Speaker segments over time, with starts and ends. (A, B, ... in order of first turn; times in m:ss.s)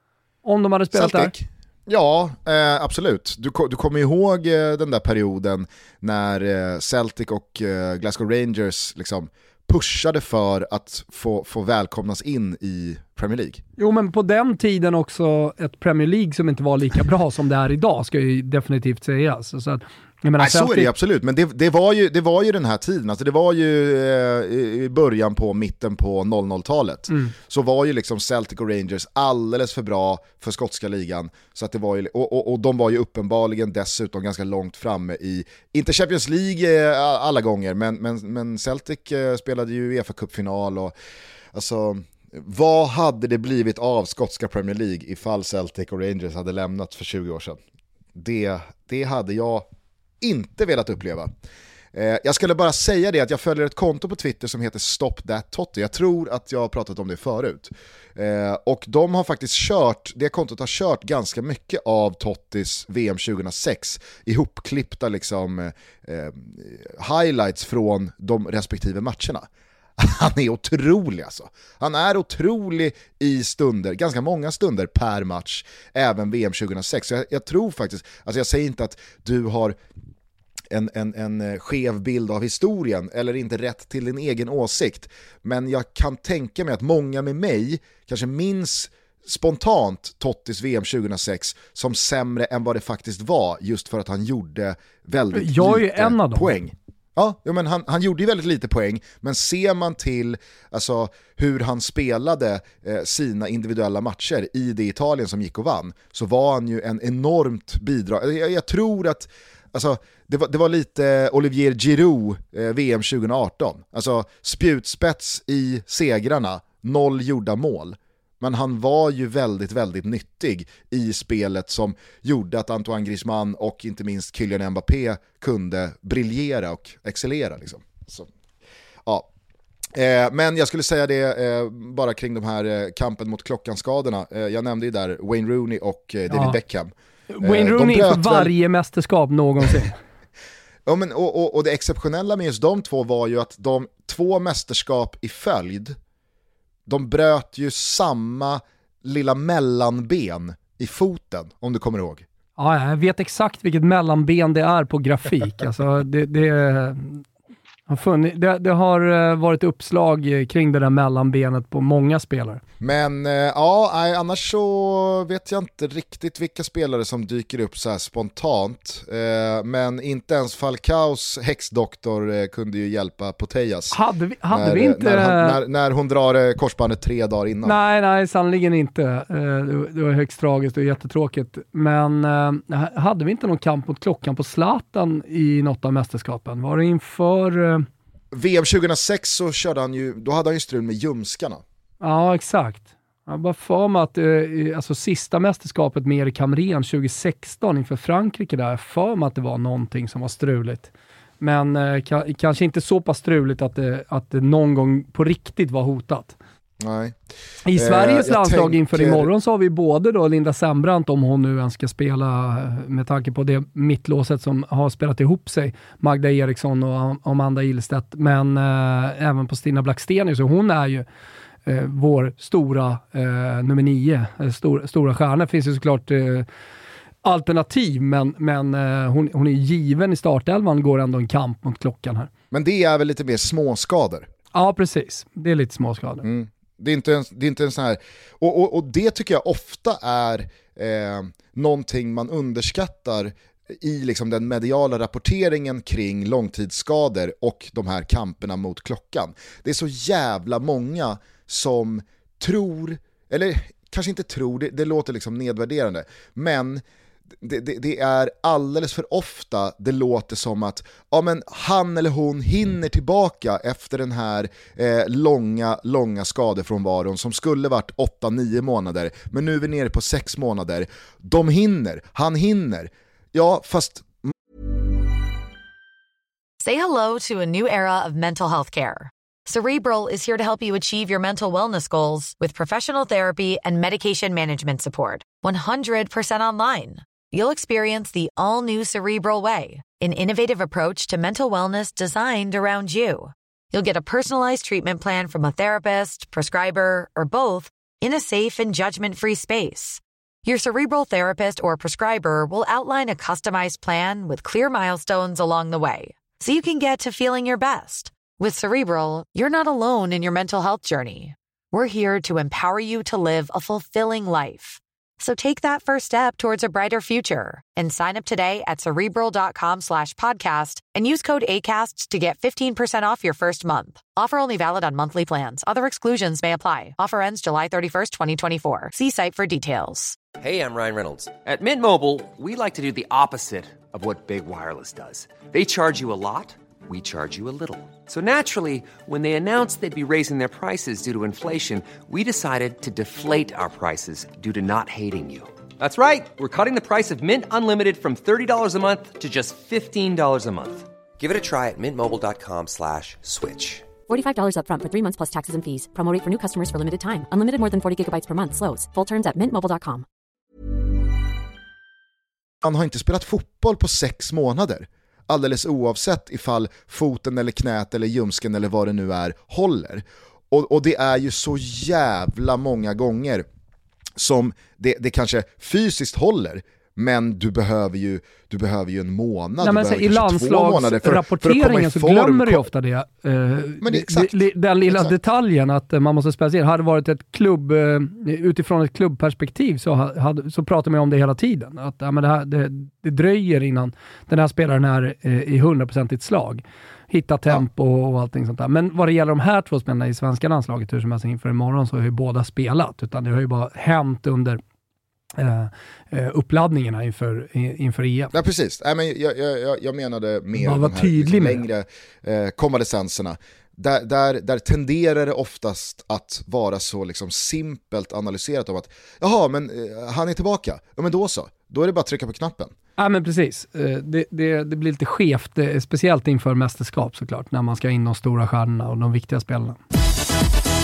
0:00.4-0:01.3 A
0:00.9-0:13.6 B
0:13.8-0:20.9 A
0:20.4-0:40.9 B
0:41.5-0:47.6 B
0:48.2-0:49.7 B
0:50.2-0:51.3 B
0:51.9-1:19.8 B
1:20.7-2:08.3 B
1:35.3-1:36.5 A
2:09.9-2:18.5 B
2:16.3-2:16.6 A
2:17.3-2:20.0 A
2:20.9-2:26.0 B
2:26.9-2:32.2 B
2:32.6-2:37.2 A
2:37.9-2:42.6 A
2:42.8-2:54.0 B
2:53.9-2:55.6 A
2:54.5-2:57.8 B
2:57.6-3:07.9 A
3:08.3-3:11.6 B
3:12.0-3:26.4 A
3:26.8-3:27.2 B
3:27.7-3:41.1 A
3:27.7-3:29.3 B
3:41.7-3:46.5 A
3:47.2-3:52.3 A
3:52.5-3:54.3 B
3:54.5-3:56.2 A
3:56.2-4:16.8 B
4:17.4-4:34.1 B
4:36.6-5:30.2 C
5:30.4-5:53.9 D
5:54.1-6:00.0 E
6:02.6-6:13.4 B
6:14.2-6:22.7 B
6:19.6-6:44.6 A
6:23.8-6:25.2 B
6:45.4-6:48.3 A
6:48.3-7:02.7 B
6:50.6-6:51.6 A
7:03.0-7:09.8 A